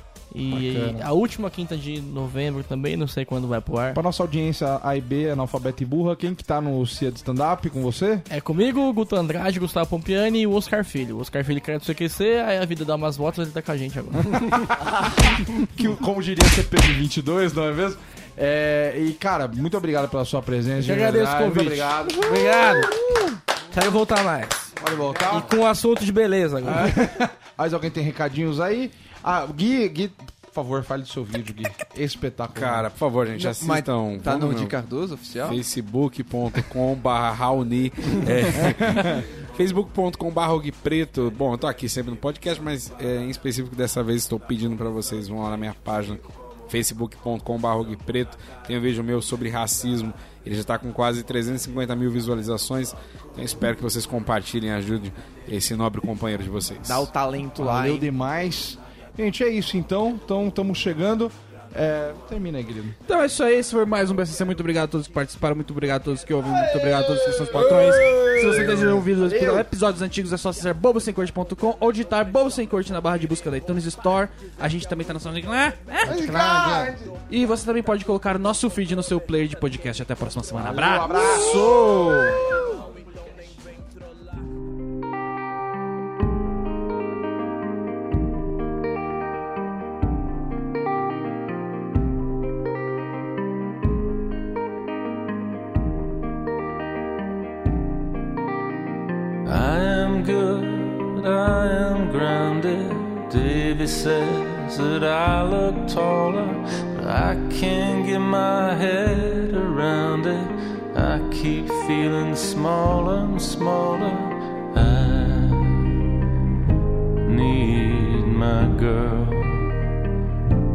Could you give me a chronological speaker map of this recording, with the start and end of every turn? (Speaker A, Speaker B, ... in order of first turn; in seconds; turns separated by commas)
Speaker A: 0.3-4.0, Speaker B: 0.5-1.1, Speaker B: 3.9-8.2, Speaker A: 8.3-14.6, Speaker B: 14.3-22.9, Speaker A: 20.8-23.1, Speaker A: 23.7-27.0, Speaker B: 24.8-25.5, Speaker B: 26.6-32.9, Speaker C: 32.5-34.7, Speaker D: 33.4-35.6, Speaker C: 35.4-57.1, Speaker B: 38.6-39.2, Speaker D: 56.8-58.1, Speaker B: 57.6-63.0, Speaker E: 63.0-76.5, Speaker B: 66.6-69.7, Speaker B: 76.0-77.1, Speaker E: 77.3-82.4, Speaker B: 80.5-81.8, Speaker F: 99.4-115.9, Speaker F: 117.2-119.7